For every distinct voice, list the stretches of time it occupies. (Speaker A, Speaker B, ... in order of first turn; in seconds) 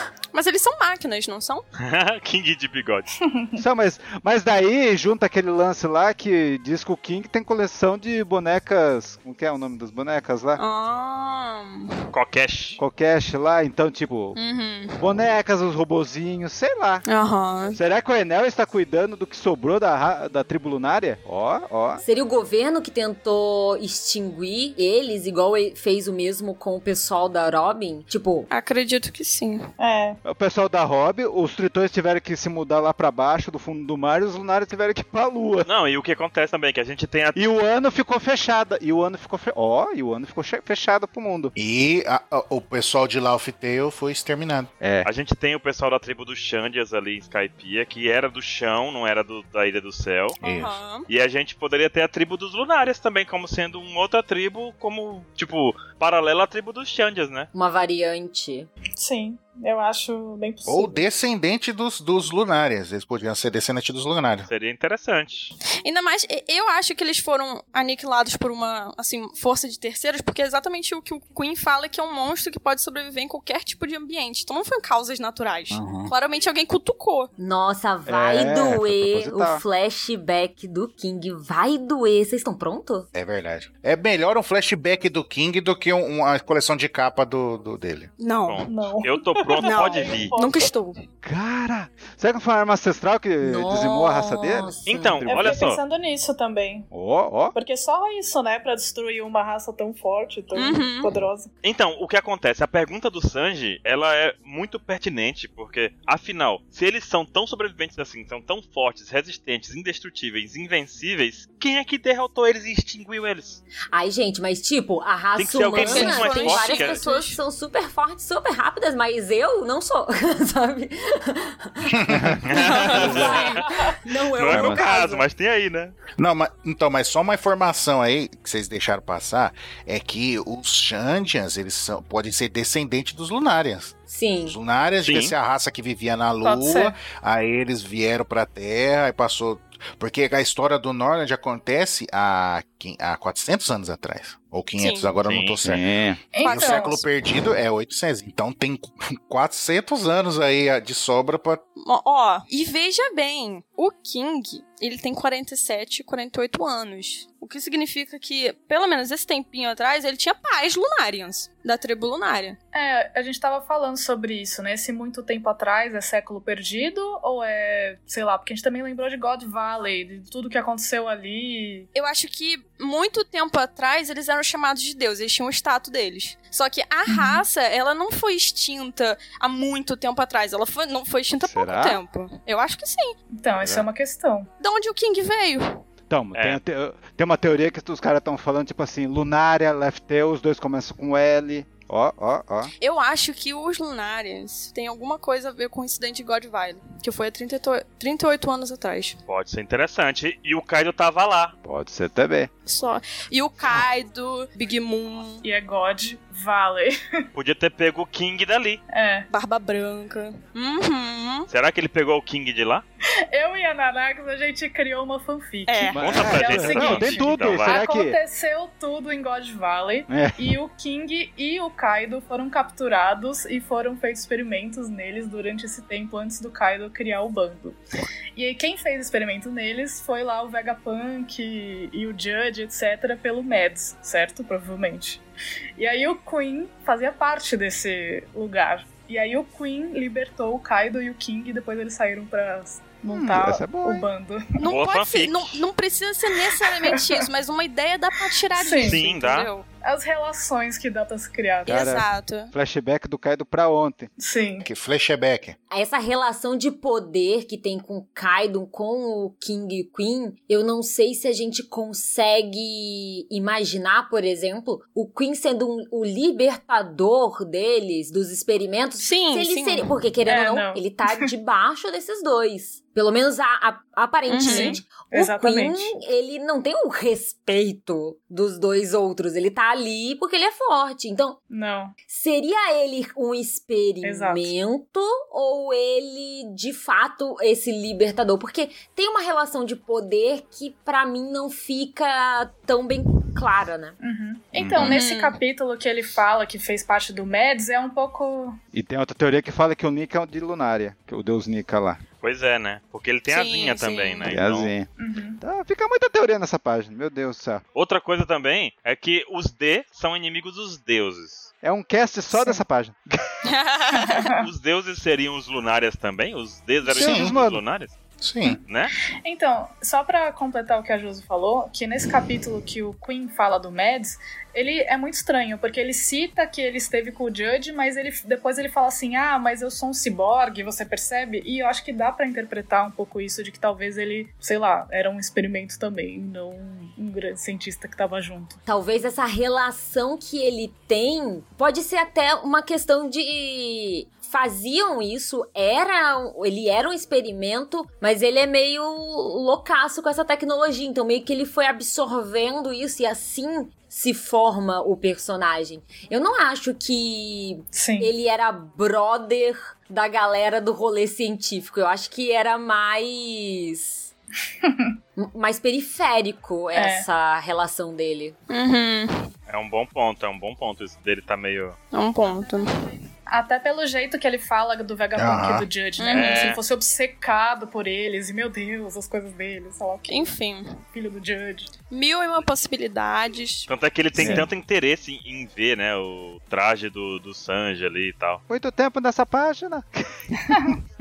Speaker A: 0.3-1.6, 10.6-11.9, 14.4-15.1, 17.1-17.8, 28.5-29.7, 50.4-51.1, 65.8-77.3, 88.2-88.6, 89.6-91.0, 100.5-101.1, 115.7-117.4, 122.7-123.6, 144.8-145.1, 146.4-147.1, 151.8-162.6, 171.9-183.2, 184.6-185.8, 192.8-199.2, 202.7-205.4, 209.3-211.5, 215.7-216.0, 244.6-249.7, 251.7-252.5, 269.0-269.9, 274.3-274.8, 294.8-295.4, 303.3-304.3, 313.4-314.3, 368.5-369.2, 371.9-372.9, 376.0-376.6, 380.1-380.8, 381.9-383.7
Speaker B: 1.8-3.1, 12.1-12.8, 35.6-37.5, 45.0-50.4, 51.1-57.5, 64.5-65.5, 88.5-90.3, 94.9-95.8, 101.6-113.6, 115.3-117.0, 122.4-123.7, 124.3-126.0, 135.0-135.3, 145.2-145.6, 186.3-186.6, 199.3-201.6, 207.3-208.8, 211.5-212.8, 216.0-217.8, 244.7-245.6, 248.8-249.5, 302.2-304.7, 307.8-311.5, 314.3-317.9, 318.6-318.9, 369.5-371.8, 376.1-376.6, 383.7-388.4
Speaker C: 3.2-3.6, 29.8-30.2, 59.0-61.0, 88.7-90.7, 95.2-96.9, 97.5-101.5, 136.4-137.0, 146.3-147.0, 162.7-171.9, 177.1-177.4, 183.3-184.5, 205.4-206.9, 208.9-209.3, 213.3-227.8, 228.3-235.2, 235.8-244.6, 246.4-247.2, 248.2-249.0, 249.8-251.8, 254.2-254.7, 270.3-271.3, 274.5-275.9, 281.5-281.9, 284.0-284.5, 294.0-298.6, 305.0-305.4, 312.3-312.6, 313.9-314.5, 319.2-338.6, 357.7-358.1, 364.6-364.9, 366.7-367.1, 373.3-380.3, 380.9-381.7, 390.5-390.8
Speaker D: 3.6-10.6, 12.8-14.4, 15.0-17.1, 17.7-22.0, 30.2-35.7, 37.4-41.5, 44.8-45.1, 78.1-79.6, 91.2-94.7, 95.2-95.6, 96.9-97.6, 122.1-122.5, 124.5-124.8, 145.6-146.2, 181.4-182.0, 183.6-183.9, 186.1-192.7, 201.6-202.5, 215.9-218.2, 220.1-220.5, 243.1-244.1, 251.7-254.1, 298.7-302.0, 304.3-307.6, 311.6-313.1, 316.9-317.6, 384.2-384.5, 388.5-389.9
Speaker E: 22.0-28.5, 57.5-58.7, 77.4-83.1, 93.4-95.3, 113.9-125.2, 134.1-134.6, 255.7-281.4, 282.1-294.0, 338.7-364.1, 365.2-368.4
Speaker F: 41.5-44.7, 50.4-50.8, 60.7-64.5, 75.8-76.1, 83.1-88.1, 121.9-123.3, 126.2-145.9, 146.4-151.6, 254.6-255.6, 294.6-294.9, 317.0-317.4, 318.2-318.6, 375.1-375.7